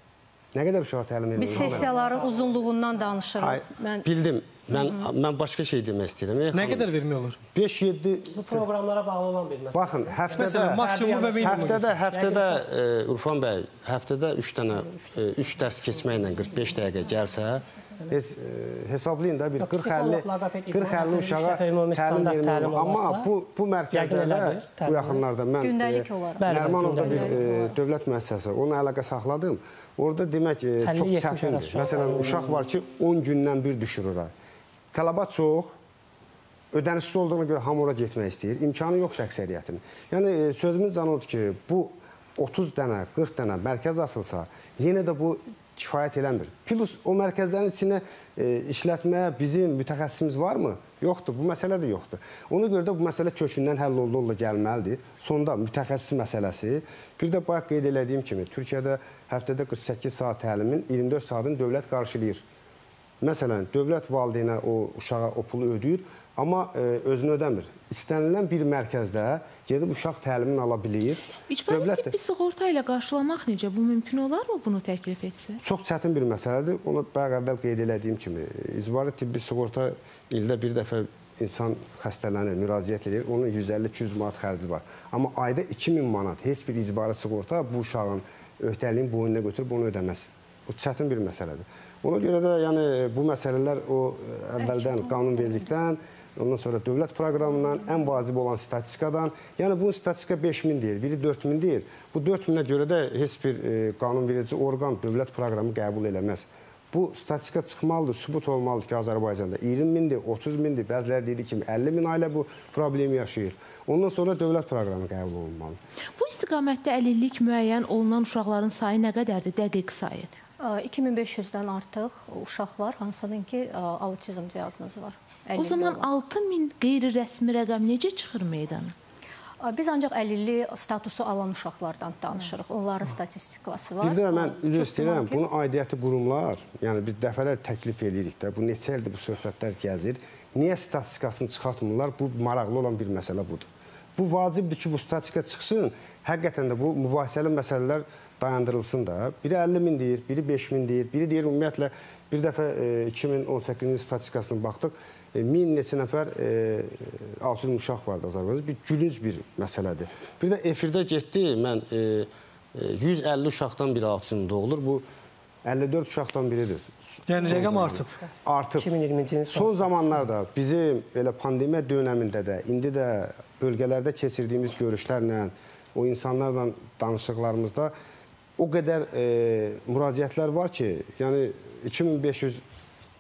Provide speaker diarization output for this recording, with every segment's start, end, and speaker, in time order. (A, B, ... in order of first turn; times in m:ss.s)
0:00.5-0:01.9 A
0:01.4-0:04.1 B
0:01.5-0:02.6 C
0:03.4-0:06.9 A
0:06.5-0:07.4 D
0:07.5-0:08.4 A
0:08.3-0:12.6 C
0:09.7-0:10.8 A
0:10.4-0:11.9 D
0:11.4-0:34.3 A
0:19.6-0:23.3 C
0:23.9-0:25.2 C
0:25.6-0:27.8 B
0:26.4-0:27.4 C
0:30.8-0:32.6 C
0:34.9-0:35.8 A
0:36.7-1:02.4 A
1:03.2-1:12.1 A
1:11.5-1:15.6 E
1:15.6-1:55.8 A
1:34.6-1:35.6 B
1:56.2-2:00.3 E
2:00.6-2:06.1 B
2:05.6-2:08.9 E
2:09.6-2:15.4 B
2:14.0-2:45.0 A
2:45.6-2:48.9 A
2:47.3-2:48.2 D
2:48.8-2:50.2 C
2:49.5-2:57.9 A
2:58.6-3:02.6 A